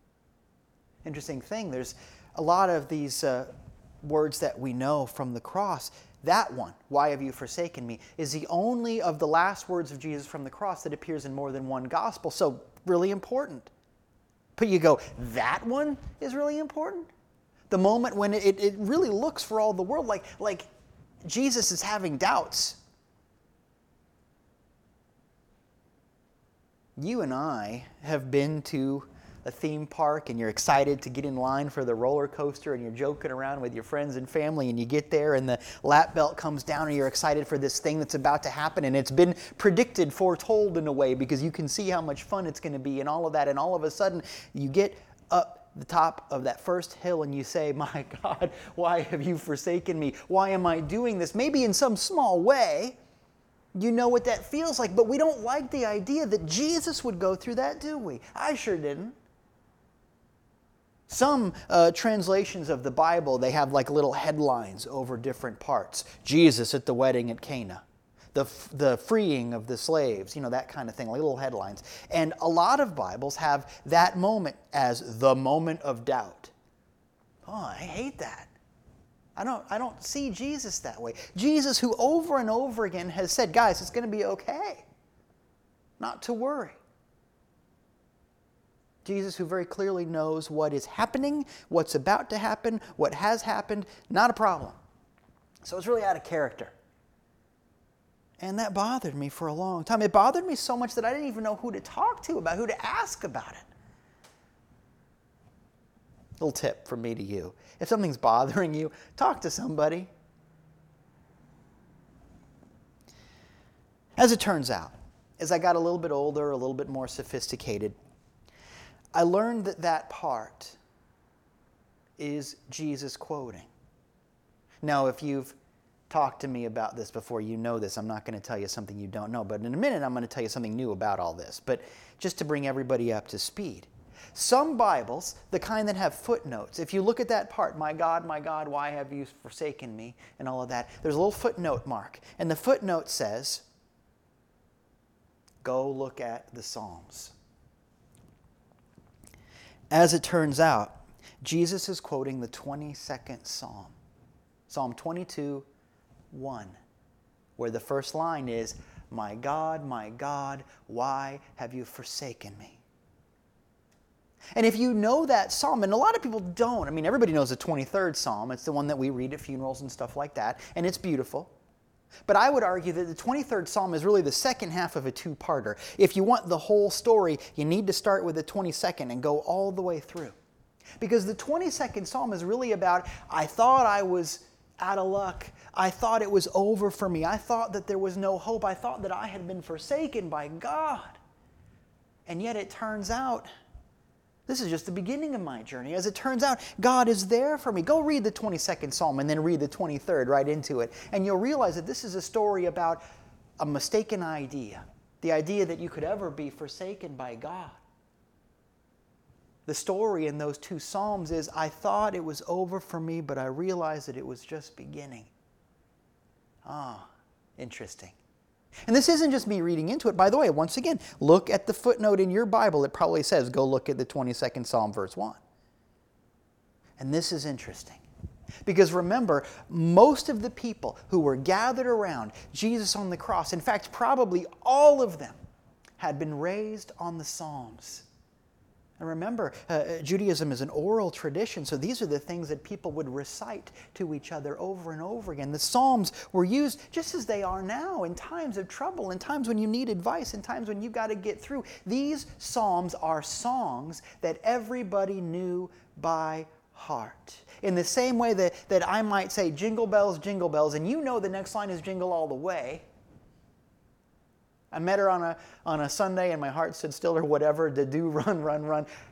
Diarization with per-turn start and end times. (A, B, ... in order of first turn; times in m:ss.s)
0:01.0-0:03.5 A
0:04.0-0:13.7 A
0:14.6-0:17.1 A
0:17.7-0:20.7 A
0:21.2-0:22.8 A
0:27.0-0:53.0 A
0:53.8-0:59.2 A
1:01.1-1:07.8 A
1:08.3-1:16.5 A
1:17.4-1:18.5 A
1:19.4-1:24.8 A
1:26.0-1:26.8 A
1:29.0-1:34.8 A
1:35.6-1:36.7 A
1:38.4-1:43.6 A
1:46.4-1:50.1 A
1:54.2-1:58.0 A
1:59.1-2:00.8 A
2:02.2-2:03.7 A
2:04.8-2:05.6 A
2:06.1-2:23.6 A
2:25.6-2:27.3 A
2:29.9-2:34.0 A
2:34.7-2:35.7 A
2:36.3-2:36.8 A
2:37.6-2:42.8 A
2:44.6-2:51.5 A
2:52.3-3:00.4 A
3:01.0-3:11.2 A
3:12.3-3:13.5 A
3:14.5-3:23.0 A
3:23.6-3:27.8 A
3:29.7-3:35.3 A
3:36.6-3:38.2 A
3:38.9-3:45.4 A
3:47.0-3:48.0 A
3:48.6-3:55.4 A
3:56.0-3:58.1 A
3:59.0-4:22.8 A
4:24.7-4:28.9 A